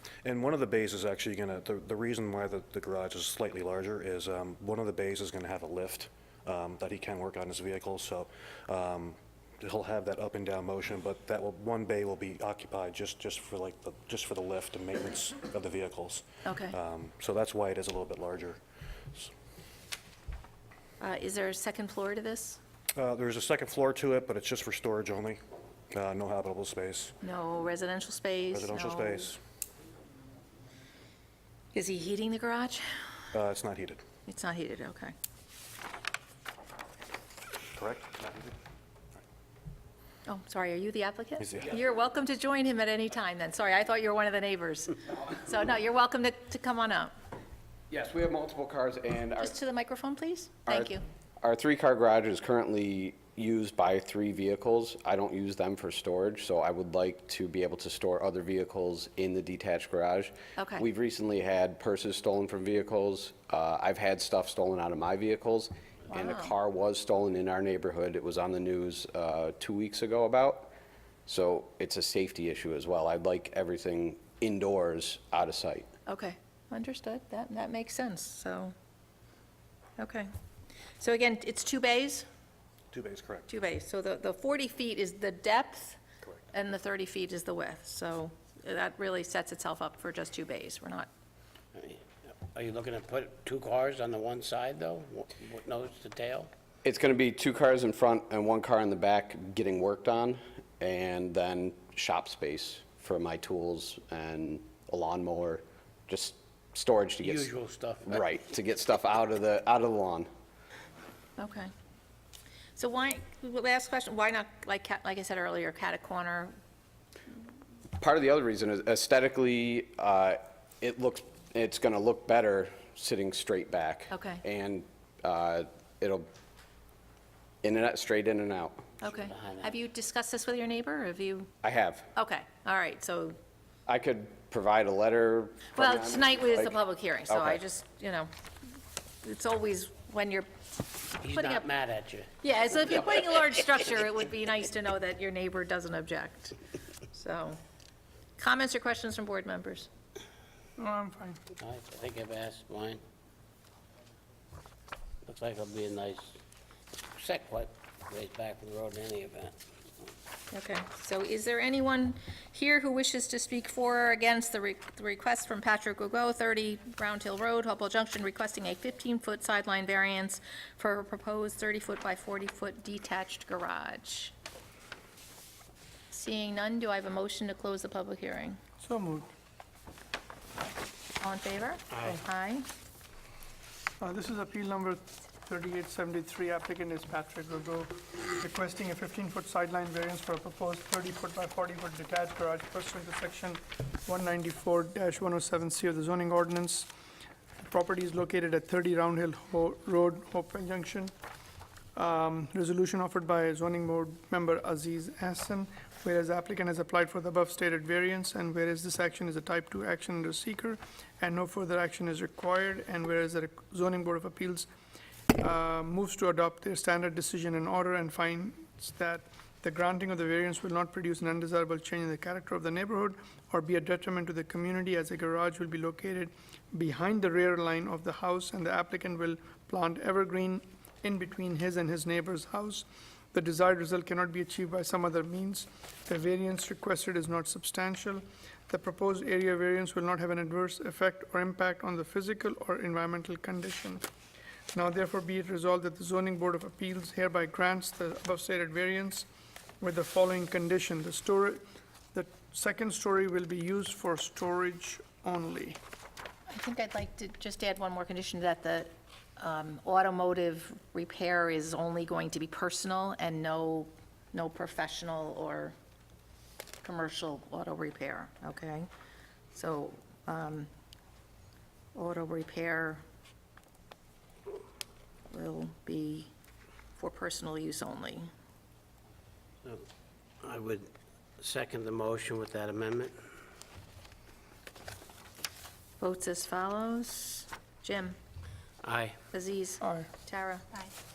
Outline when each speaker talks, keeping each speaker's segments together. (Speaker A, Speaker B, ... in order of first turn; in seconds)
Speaker A: 0.2-18.6, 22.9-25.4, 25.9-27.1, 28.5-29.4, 33.3-34.0, 37.7-38.5, 41.4-41.7, 82.9-83.5
Speaker B: 16.4-16.8, 21.0-22.6, 27.2-29.3, 31.7-32.9, 34.3-35.1, 40.2-47.1, 49.4-51.0, 60.5-60.9, 66.1-66.5, 76.0-78.7, 80.0-80.3, 81.0-82.2, 83.5-86.0, 86.5-91.1, 111.4-111.7, 112.8-116.5, 124.1-124.4, 129.0-131.5, 132.1-133.4, 135.8-138.3, 139.2-140.5, 141.2-141.7, 142.4-146.6, 147.1-147.6, 148.4-149.9, 160.5-174.3, 176.1-178.6, 181.2-182.7, 256.5-265.7, 266.8-268.9, 269.5-270.7, 271.9-273.0, 275.3-276.3, 277.0-278.3, 286.0-288.1, 289.3-290.6
Speaker C: 47.9-49.5, 50.7-70.7, 71.3-75.9, 96.8-107.5, 108.0-110.3, 118.0-126.3, 127.6-128.9, 131.6-132.1, 133.9-136.8, 137.3-137.6
Speaker D: 91.7-96.5, 107.2-108.2, 129.2-129.7, 141.2-142.3, 151.6-153.0, 155.2-156.4, 157.2-159.6, 181.9-182.2, 280.4-283.1, 288.8-289.2
Speaker E: 150.8-151.4, 178.8-179.3, 184.0-196.9, 197.6-201.1, 201.9-214.7, 215.4-244.0, 244.7-249.3, 249.8-251.6, 252.1-255.8, 289.8-290.1